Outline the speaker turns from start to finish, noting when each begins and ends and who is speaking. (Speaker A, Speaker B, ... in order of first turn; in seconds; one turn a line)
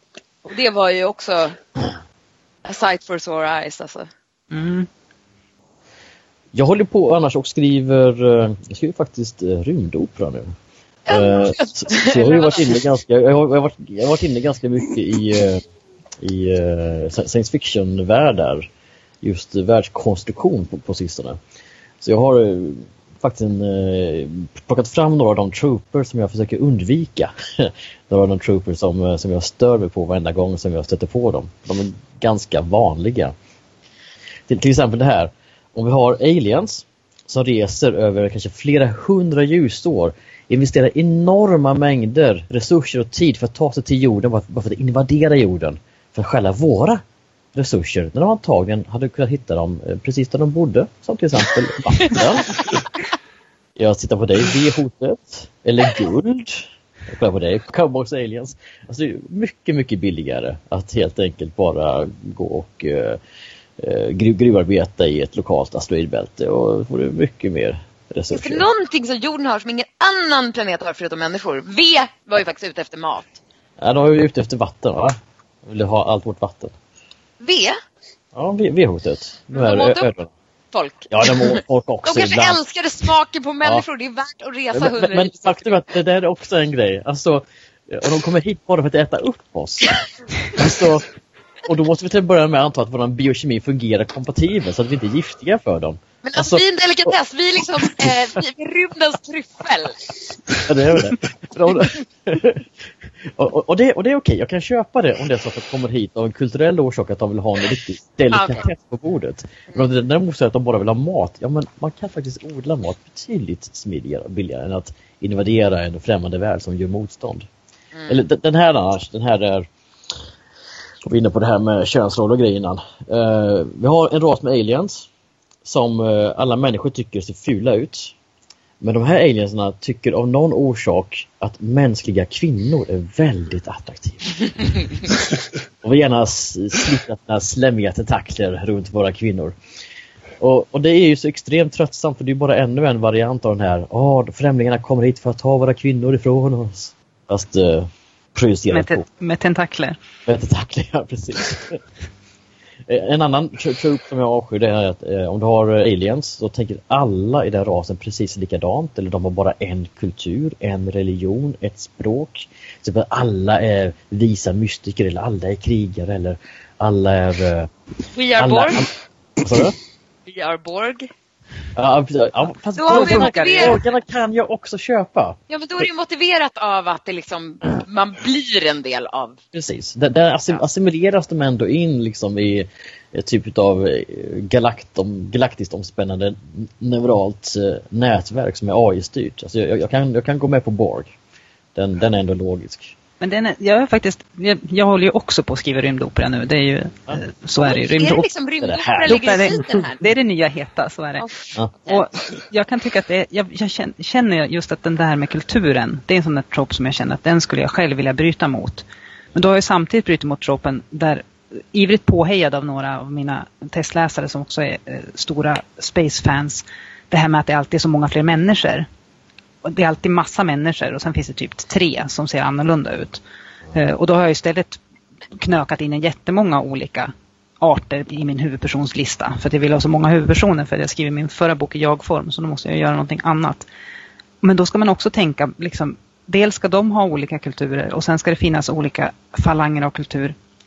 Speaker A: 0.4-1.6
Speaker A: 2.6-4.1
Speaker B: 4.5-4.9
Speaker C: 6.5-10.5
Speaker A: 11.1-12.8
Speaker C: 11.1-15.6
Speaker C: 16.2-18.7
Speaker C: 19.2-21.4
Speaker C: 22.0-33.3
Speaker C: 34.5-47.0
Speaker C: 47.5-52.7
Speaker C: 53.8-63.2
Speaker C: 63.8-68.6
Speaker A: 68.3-73.4
Speaker C: 73.8-76.7
Speaker A: 77.4-77.8
Speaker C: 78.3-80.3
Speaker A: 79.5-80.1
Speaker A: 80.7-85.6
Speaker C: 81.1-82.6
Speaker C: 84.7-90.0
Speaker C: 90.5-91.1
Speaker C: 91.7-97.1
Speaker A: 96.2-100.0
Speaker C: 100.7-102.7
Speaker C: 103.2-117.5
Speaker A: 108.3-108.7
Speaker A: 117.9-118.2
Speaker C: 118.1-119.7
Speaker C: 121.0-125.1
Speaker C: 125.6-128.1
Speaker C: 128.8-135.1
Speaker C: 135.8-139.6
Speaker C: 140.4-149.1
Speaker B: 148.7-150.0
Speaker C: 150.2-151.8
Speaker C: 152.9-167.7
Speaker A: 168.1-168.9
Speaker C: 168.4-168.9
Speaker C: 169.4-169.8
Speaker A: 170.2-171.1
Speaker C: 171.8-175.4
Speaker A: 172.8-173.8
Speaker B: 172.8-173.8
Speaker A: 175.5-179.4
Speaker C: 179.5-191.1
Speaker C: 191.7-192.9
Speaker B: 193.2-198.2
Speaker A: 197.6-200.0
Speaker C: 198.6-199.2
Speaker B: 199.1-201.2
Speaker A: 201.2-202.0
Speaker B: 201.9-218.9
Speaker B: 219.6-223.2
Speaker B: 223.7-224.8
Speaker B: 225.3-233.7
Speaker B: 234.4-240.3